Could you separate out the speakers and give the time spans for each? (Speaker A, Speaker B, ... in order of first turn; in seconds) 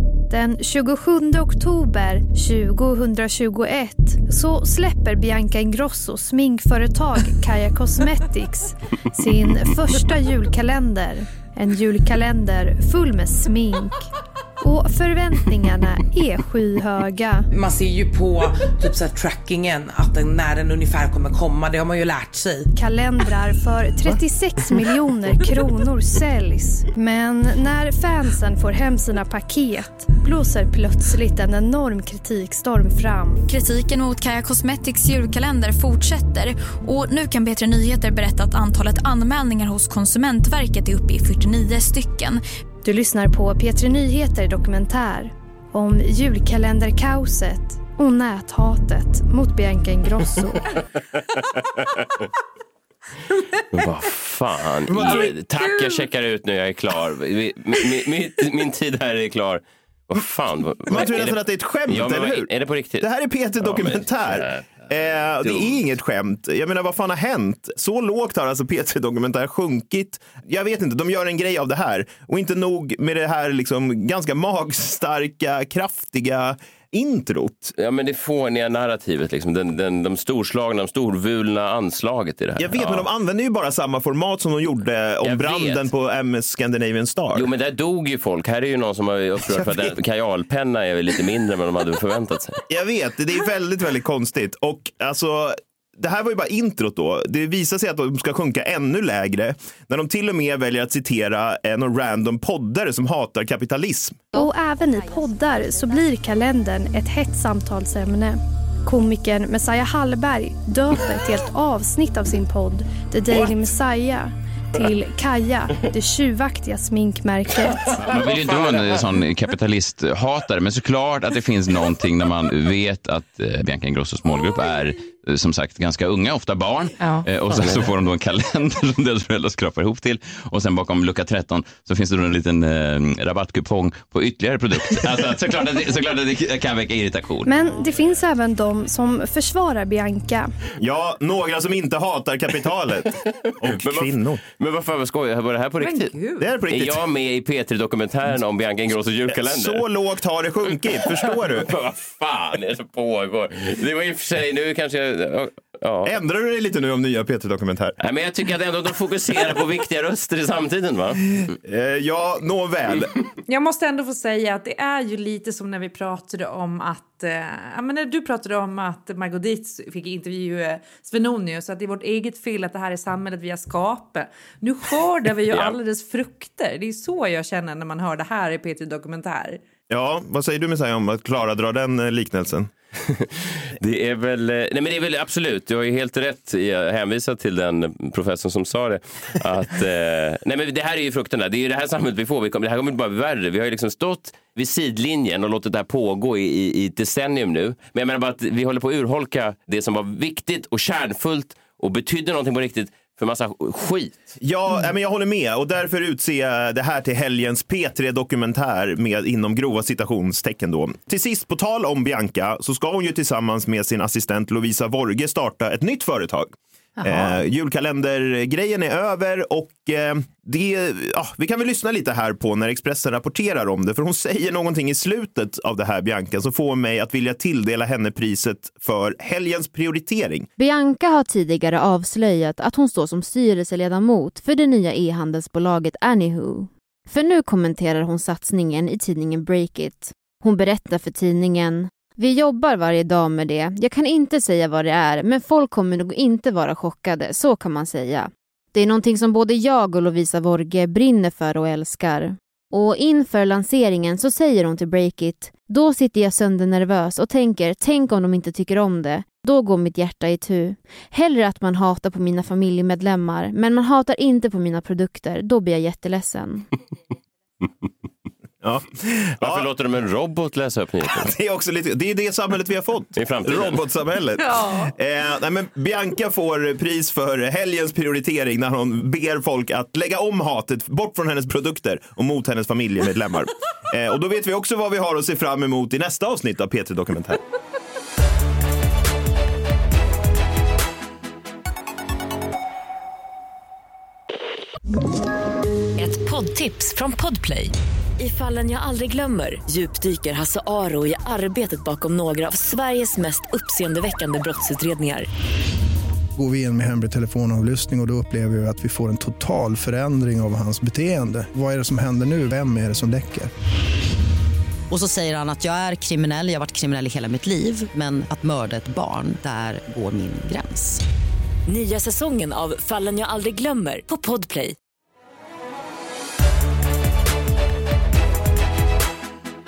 Speaker A: 0.3-14.1, 14.6-17.5, 22.8-33.4, 42.8-50.6, 104.3-117.9, 137.4-140.5
Speaker B: 17.6-18.4, 18.9-22.5
Speaker C: 33.5-42.4
Speaker D: 53.7-63.1, 63.6-64.7, 65.4-65.8, 77.7-83.1, 85.2-85.9, 87.3-92.6, 118.0-118.3, 127.5-127.8, 135.0-136.3, 143.7-146.1, 146.7-149.8, 151.2-156.1, 158.0-161.3, 175.5-175.8, 183.1-204.3, 269.4-271.3, 273.1-273.8
Speaker E: 54.9-56.0, 145.8-146.5, 163.4-179.6, 217.0-217.3, 274.5-274.9
Speaker F: 60.9-77.7, 82.6-87.5, 89.5-89.8, 92.7-104.2, 140.8-144.4, 146.4-147.0, 149.3-151.7, 156.0-157.9, 161.6-163.1, 179.9-182.7, 204.4-230.5, 268.6-269.7, 271.0-287.4
Speaker G: 118.0-137.4
Speaker H: 230.6-266.7
Speaker I: 296.0-305.3, 321.7-324.8
Speaker J: 306.3-313.5
Speaker K: 314.9-321.0